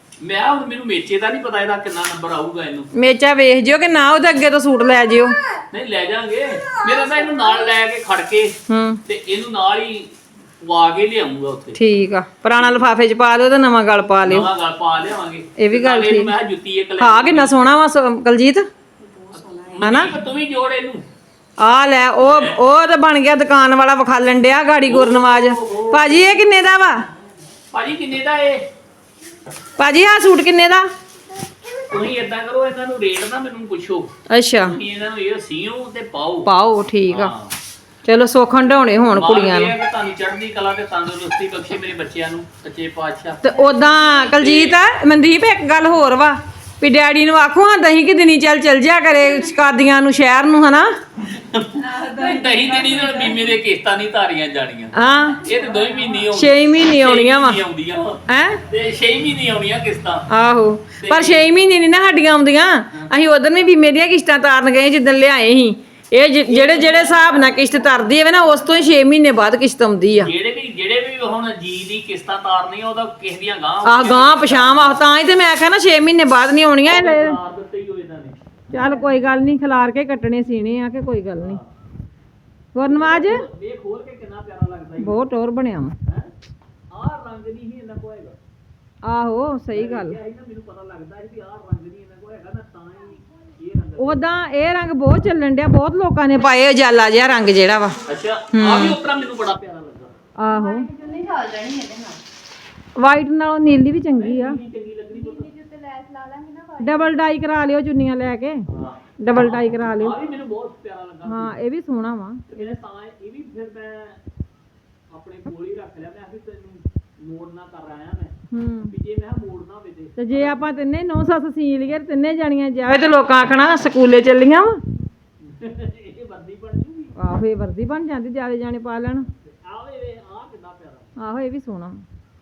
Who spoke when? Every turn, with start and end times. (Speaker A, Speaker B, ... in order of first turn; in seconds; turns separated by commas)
Speaker A: 0.2-2.9, Speaker B: 2.9-5.3, Speaker A: 5.7-8.5, Speaker B: 8.7-9.0, Speaker A: 9.1-11.8, Speaker B: 11.8-14.5, Speaker A: 12.6-12.9, Speaker A: 14.2-17.6, Speaker B: 15.6-16.3, Speaker B: 17.0-18.6, Speaker C: 19.0-19.9, Speaker A: 19.7-21.0, Speaker B: 19.8-20.1, Speaker B: 21.6-27.1, Speaker A: 22.2-22.6, Speaker A: 24.9-26.3, Speaker A: 27.7-28.6, Speaker B: 29.8-30.9, Speaker A: 31.8-36.5, Speaker B: 34.3-34.8, Speaker B: 36.4-37.3, Speaker A: 37.1-37.5, Speaker B: 38.0-39.7, Speaker A: 39.1-43.4, Speaker B: 43.4-50.9, Speaker C: 43.5-44.2, Speaker A: 44.3-44.8, Speaker A: 51.2-60.3, Speaker C: 51.8-53.5, Speaker B: 54.9-55.5, Speaker C: 55.5-56.0, Speaker B: 56.3-57.6, Speaker B: 58.3-58.6, Speaker B: 60.3-70.3, Speaker A: 61.0-61.5, Speaker A: 66.5-67.6, Speaker A: 70.2-75.0, Speaker B: 73.8-77.4, Speaker A: 76.8-78.6, Speaker B: 78.7-81.6, Speaker A: 81.4-81.7, Speaker B: 82.7-83.4, Speaker A: 82.8-85.2, Speaker B: 85.0-85.9, Speaker A: 86.0-86.3, Speaker A: 86.9-88.4, Speaker B: 89.0-90.2, Speaker A: 89.7-94.2, Speaker B: 94.0-98.0, Speaker A: 98.0-100.1, Speaker B: 98.5-99.0, Speaker B: 100.4-100.9, Speaker C: 100.5-102.2, Speaker B: 103.0-104.6, Speaker A: 104.2-105.5, Speaker C: 105.1-107.2, Speaker B: 106.8-108.6, Speaker A: 108.7-111.6, Speaker B: 109.2-110.2, Speaker B: 111.2-112.7, Speaker A: 112.5-114.2, Speaker A: 115.1-118.3, Speaker B: 118.5-118.9, Speaker A: 118.9-120.7, Speaker B: 120.2-124.8, Speaker A: 125.4-127.1, Speaker B: 127.2-129.2, Speaker A: 129.4-131.1, Speaker B: 131.2-132.0